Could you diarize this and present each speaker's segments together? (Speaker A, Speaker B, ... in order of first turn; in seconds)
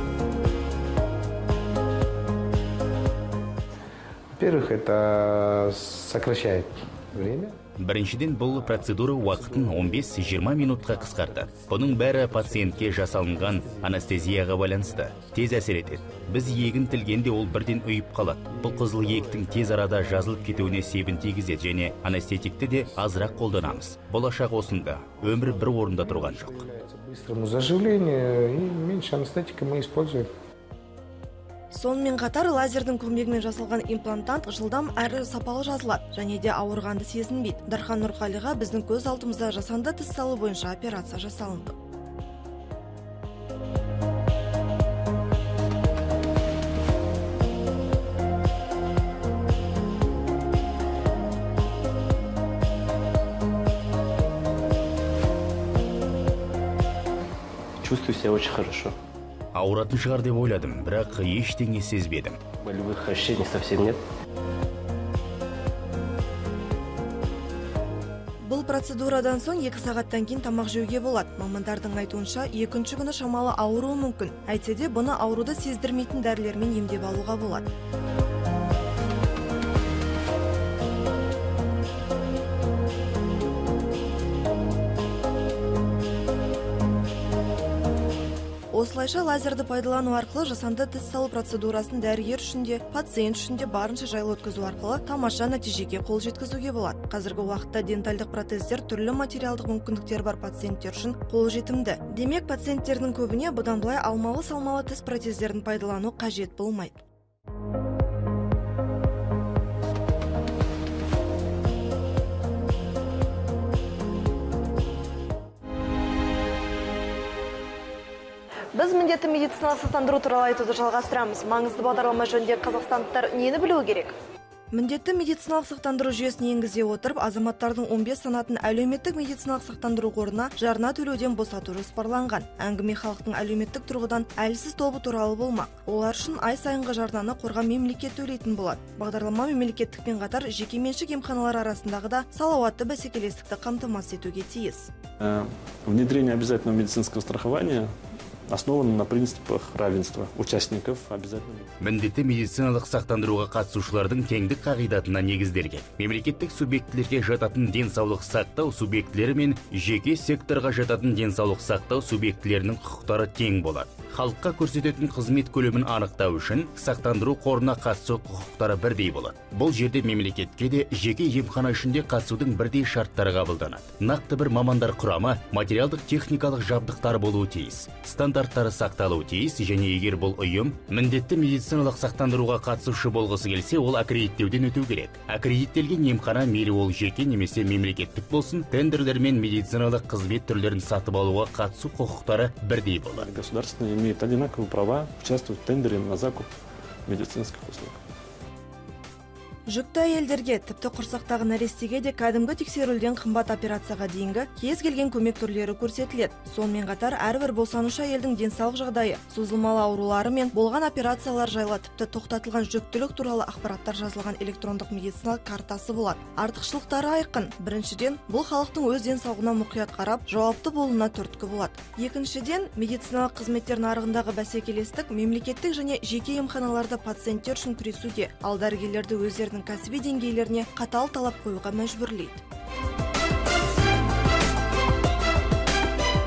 Speaker A: 4.4-7.6, 8.7-10.2, 10.7-14.1, 14.9-15.5, 16.1-16.9, 18.6-21.0, 22.9-23.8, 25.4-30.3
Speaker B: 7.8-26.7, 59.5-62.4, 151.8-193.3
Speaker C: 31.7-41.8, 68.4-77.7, 88.7-107.1, 118.8-124.2, 124.7-144.9, 199.7-232.4
Speaker D: 57.8-59.0, 62.6-64.0
Speaker E: 145.2-147.9, 148.5-151.7, 193.1-196.5, 197.1-198.0